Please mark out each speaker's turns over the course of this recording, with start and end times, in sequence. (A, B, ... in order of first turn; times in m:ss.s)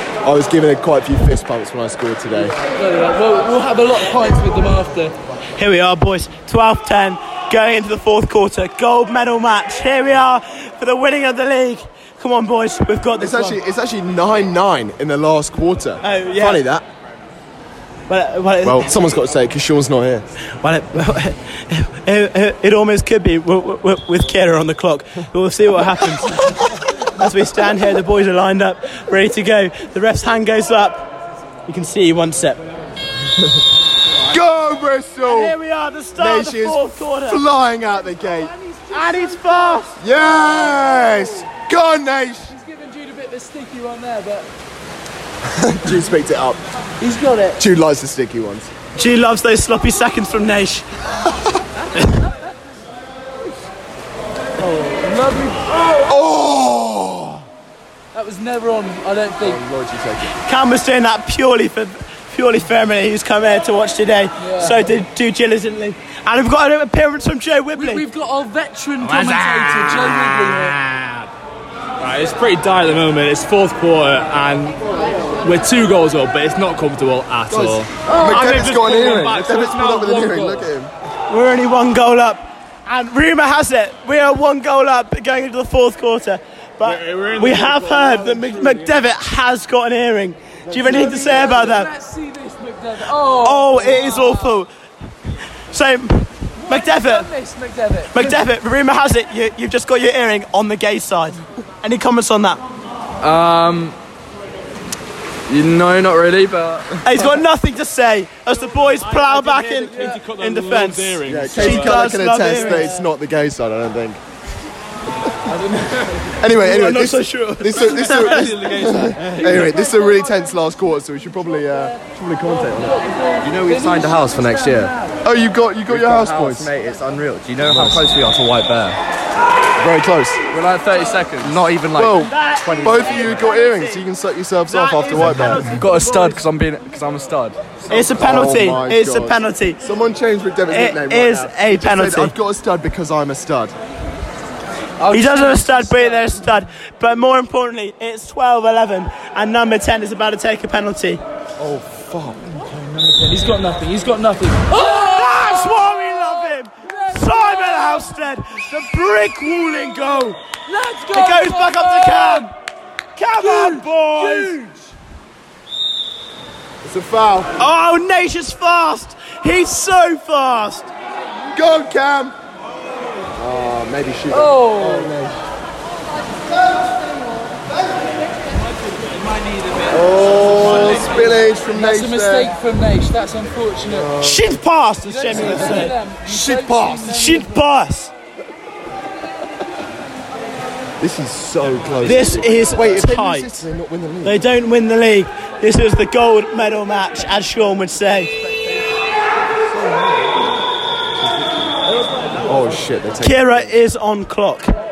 0:00.2-0:02.6 A
0:02.3-0:05.1 B
0:05.6-0:13.6 C
0:13.2-0:16.8 A
0:16.0-0:16.6 C
0:18.1-0:19.1 C
0:18.6-0:20.3 A
0:20.6-0:31.0 C
0:31.7-0:32.6 C
0:34.2-0:35.6 A
0:35.2-0:37.4 C
0:36.1-0:38.5 A
0:38.2-0:41.3 B
0:38.9-0:40.0 C
0:40.0-0:42.5 A
0:42.5-0:44.5 B
0:45.4-0:46.6 A
0:47.0-0:47.6 B
0:47.6-0:48.7 A
0:48.9-0:50.9 C
0:54.6-0:55.9 B
0:55.9-0:57.4 A
0:58.1-0:59.6 B
0:59.4-1:00.4 A
1:00.4-1:08.0 C
1:04.4-1:04.9 B
1:07.7-1:10.8 B
1:09.1-1:09.9 D
1:12.0-1:20.7 D
1:17.5-1:20.9 A
1:21.3-1:31.9 C
1:26.8-1:29.0 D
1:30.7-1:34.6 B
1:33.2-1:34.7 C
1:35.7-1:37.3 C
1:36.6-1:38.4 B
1:38.1-1:42.6 C
1:43.2-1:44.0 E
1:45.5-1:47.1 E
1:47.0-1:52.9 C
1:48.8-1:52.1 D
1:51.2-1:54.2 A
1:56.3-2:03.0 A
1:56.5-1:58.8 C
1:58.7-1:59.4 D
2:02.5-2:05.2 B
2:02.8-2:04.9 E
2:05.2-2:06.7 A
2:05.9-2:09.0 E
2:07.6-2:08.0 A
2:09.8-2:10.4 A
2:10.5-2:13.4 E
2:11.9-2:15.8 A
2:12.1-2:14.0 C
2:14.7-2:16.4 C
2:15.2-2:17.8 E
2:17.9-2:19.8 C
2:18.1-2:23.7 A
2:20.7-2:22.3 C
2:25.0-2:26.4 B
2:25.1-2:31.2 C
2:31.6-2:32.5 A
2:32.5-2:38.3 B
2:34.7-2:40.4 C
2:40.6-2:42.5 B
2:41.1-2:42.5 C
2:43.2-2:44.6 C
2:43.4-2:44.9 B
2:46.8-2:47.5 A
2:47.6-2:50.9 C
2:51.5-2:52.3 A
2:53.4-2:55.4 A
2:54.3-2:55.2 B
2:59.9-3:02.5 A
3:00.4-3:04.1 B
3:03.8-3:04.6 A
3:04.2-3:06.0 C
3:05.0-3:07.6 B
3:05.3-3:07.2 A
3:07.0-3:08.1 C
3:11.0-3:14.4 A
3:12.0-3:13.5 C
3:14.2-3:18.3 C
3:19.6-3:20.5 A
3:21.2-3:21.7 A
3:22.4-3:23.8 A
3:23.2-3:24.7 C